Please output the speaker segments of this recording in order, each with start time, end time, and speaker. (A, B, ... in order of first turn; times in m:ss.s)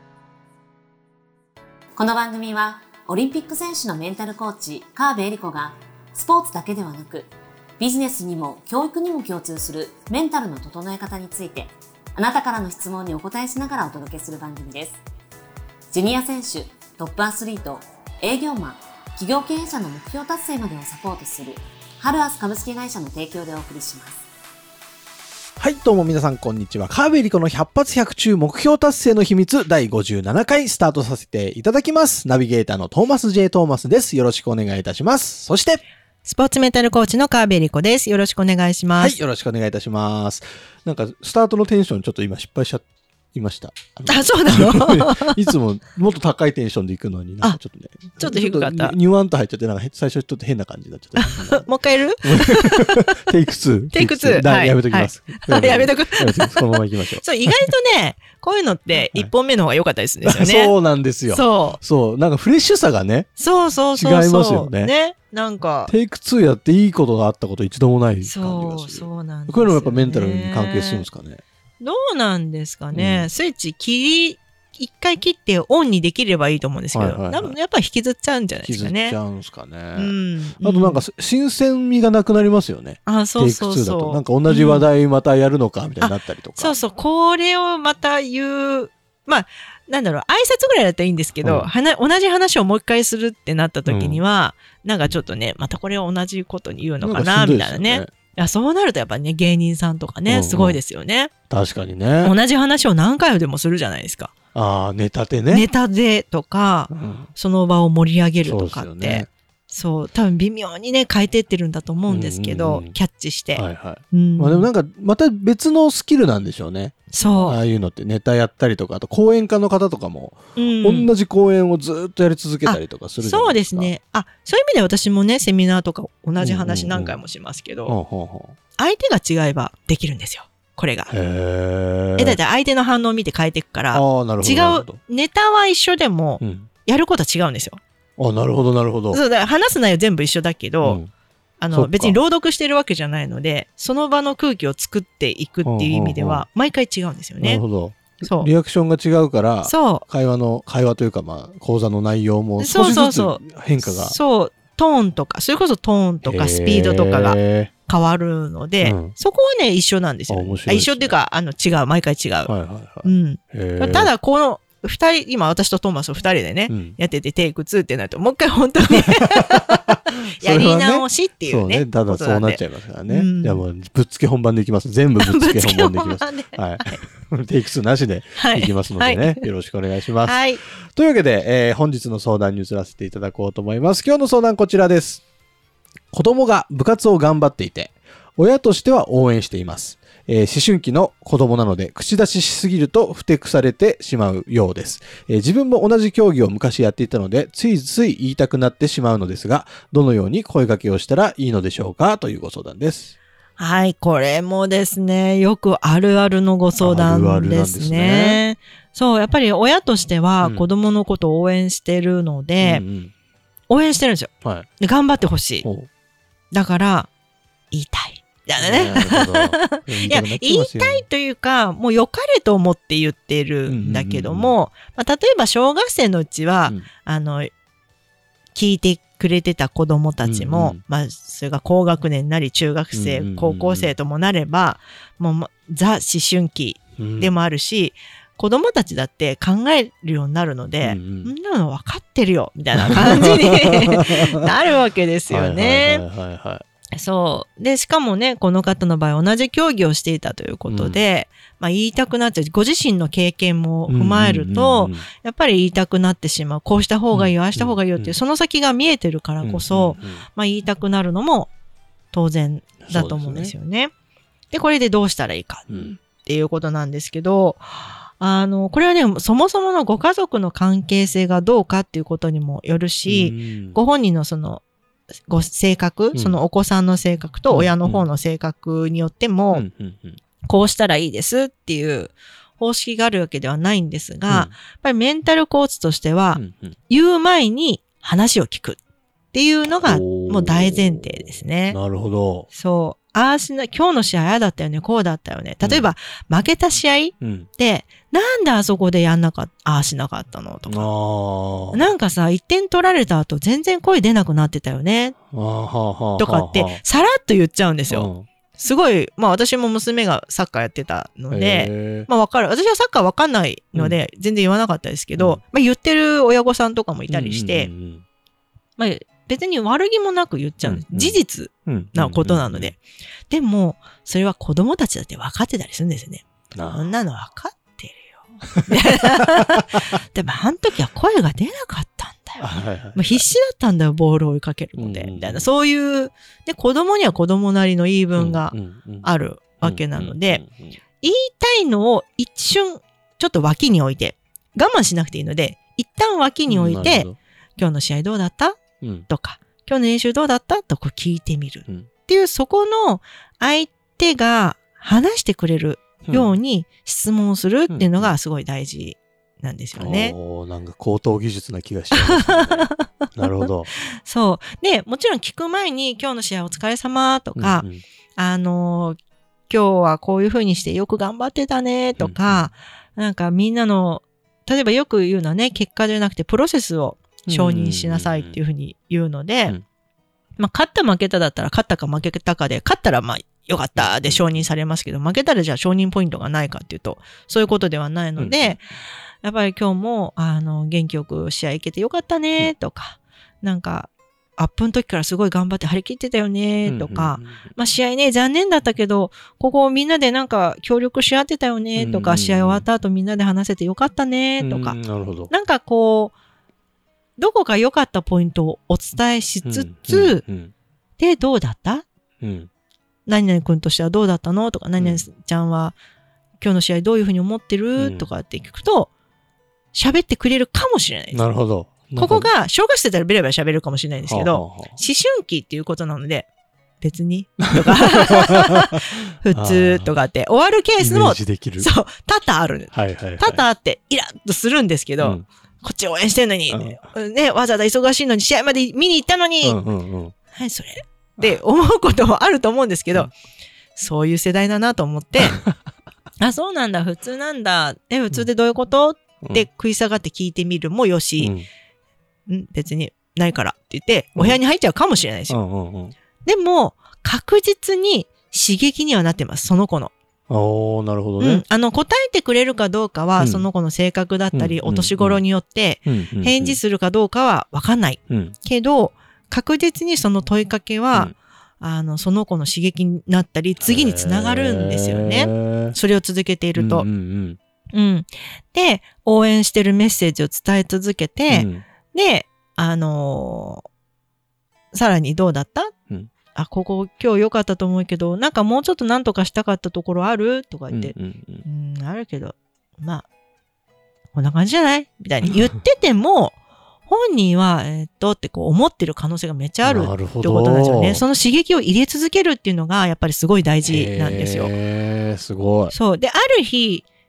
0:02.0-0:15.0 A
0:15.9-0:24.3 A
0:25.6-0:35.8 B
0:36.2-0:39.2 C
0:39.0-0:51.7 B
0:44.1-0:45.4 C
0:48.2-0:49.0 C
0:51.2-0:53.1 C
0:52.2-0:57.7 B
0:53.9-0:56.7 C
0:57.2-1:00.8 C
0:59.0-0:59.3 B
1:00.2-1:03.3 B
1:01.3-1:01.8 C
1:03.4-1:05.9 C
1:03.9-1:04.9 B
1:05.9-1:11.4 B
1:08.2-1:11.1 C
1:11.8-1:19.2 C
1:12.9-1:13.3 B
1:16.9-1:17.6 B
1:18.6-1:26.8 B
1:20.0-1:21.0 C
1:23.1-1:24.9 C
1:26.0-1:41.3 C
1:31.4-1:31.7 B
1:33.9-1:34.2 B
1:37.0-1:38.1 B
1:40.3-1:40.8 B
1:41.5-1:42.3 B
1:42.2-1:44.3 C
1:44.5-1:45.7 B
1:45.5-1:54.7 C
1:46.9-1:47.3 B
1:48.4-1:49.3 B
1:52.1-1:52.9 B
1:53.6-2:03.9 B
1:57.1-1:57.6 C
2:00.6-2:01.1 C
2:02.7-2:08.0 C
2:06.4-2:07.2 B
2:07.9-2:08.6 B
2:08.8-2:11.1 C
2:11.1-2:12.4 B
2:12.2-2:17.8 C
2:13.9-2:15.0 B
2:16.4-2:16.7 B
2:18.2-2:19.2 B
2:19.1-2:21.0 C
2:20.8-2:21.1 B
2:21.6-2:27.6 C
2:21.7-2:22.2 B
2:25.6-2:26.5 B
2:27.4-2:34.2 B
2:28.2-2:28.5 C
2:29.6-2:30.0 C
2:32.6-2:42.5 C
2:36.2-2:37.7 B
2:38.8-2:39.1 B
2:40.3-2:41.2 B
2:42.5-2:44.1 B
2:43.0-2:53.6 C
2:46.7-2:47.0 B
2:48.9-3:05.2 B
2:55.2-2:57.0 C
2:58.4-2:59.4 C
3:00.2-3:00.6 C
3:06.1-3:23.2 B
3:23.6-3:32.8 C
3:26.8-3:28.4 B
3:30.4-3:30.7 B
3:32.6-3:33.1 B
3:33.7-3:35.7 C
3:35.6-3:35.9 B
3:36.5-3:37.1 C
3:37.7-3:47.5 C
3:38.6-3:41.0 B
3:43.7-3:44.6 B
3:48.5-4:06.0 C
3:50.2-3:50.8 B
3:52.9-3:53.9 B
3:57.0-3:57.3 B
4:00.8-4:01.3 B
4:02.8-4:04.4 B
4:05.3-4:06.6 B
4:07.0-4:21.5 C
4:10.7-4:11.0 B
4:13.9-4:15.1 B
4:17.1-4:18.2 B
4:19.4-4:20.2 B
4:22.1-4:23.9 C
4:22.9-4:23.5 B
4:24.5-4:34.6 C
4:25.7-4:26.0 B
4:33.1-4:33.8 B
4:35.3-4:39.7 C
4:37.5-4:38.1 B
4:39.5-4:40.2 B
4:40.4-4:48.8 C
4:44.3-4:44.6 B
4:46.4-4:46.8 B
4:49.3-4:51.8 C
4:49.8-4:52.5 B
4:52.5-5:00.9 C
4:55.6-4:55.9 B
4:57.2-4:57.5 B
5:00.7-5:01.9 B
5:01.7-5:05.2 C
5:05.3-5:06.8 B
5:06.2-5:17.7 C
5:07.9-5:08.3 B
5:11.3-5:12.1 B
5:15.2-5:15.4 B
5:17.1-5:18.0 B
5:18.8-5:40.4 C
5:20.6-5:22.7 B
5:26.6-5:26.9 B
5:32.4-5:33.3 B
5:34.8-5:35.5 B
5:38.2-5:39.1 B
5:39.6-5:40.8 B
5:41.0-6:00.2 C
5:46.5-5:47.2 B
5:48.8-5:49.1 B
5:56.1-5:56.4 B
5:57.7-5:58.2 B
5:59.8-6:03.7 B
6:01.9-6:02.9 C
6:03.4-6:09.0 C
6:07.4-6:07.8 B
6:09.5-6:19.6 C
6:12.0-6:12.5 B
6:17.3-6:18.4 B
6:20.4-6:28.7 C
6:23.8-6:24.4 B
6:28.2-6:28.6 B
6:29.2-6:46.2 C
6:36.6-6:37.5 B
6:41.8-6:42.6 B
6:44.4-6:45.3 B
6:47.2-6:50.2 C
6:49.4-6:50.5 B
6:51.0-6:51.9 C
6:52.2-6:52.5 B
6:53.1-6:55.8 C
6:54.8-6:55.1 B
6:56.4-6:58.9 C
6:57.8-6:58.1 B
6:59.7-7:01.3 C
7:01.1-7:02.3 B
7:02.0-7:06.3 C
7:04.1-7:04.8 B
7:06.8-7:19.6 C
7:07.5-7:09.9 B
7:10.8-7:11.7 B
7:12.7-7:13.4 B
7:16.5-7:16.8 B
7:19.4-7:20.1 B
7:20.3-7:23.1 C
7:23.8-7:25.4 C
7:26.2-7:31.4 C
7:31.2-7:31.5 B
7:32.3-7:35.4 C
7:35.3-7:36.0 B
7:36.2-7:39.9 C
7:40.3-7:41.4 B
7:41.2-7:56.9 C
7:43.2-7:43.5 B
7:44.3-7:45.2 B
7:45.9-7:46.6 B
7:48.1-7:48.4 B
7:53.6-7:55.8 B
7:56.6-7:57.4 B
7:57.7-8:03.6 C
8:01.3-8:01.6 B
8:04.7-8:05.7 C
8:06.3-8:10.9 C
8:10.7-8:11.5 B
8:11.4-8:13.1 C
8:14.1-8:24.5 C
8:19.6-8:21.0 B
8:23.6-8:25.7 B
8:25.7-8:26.9 C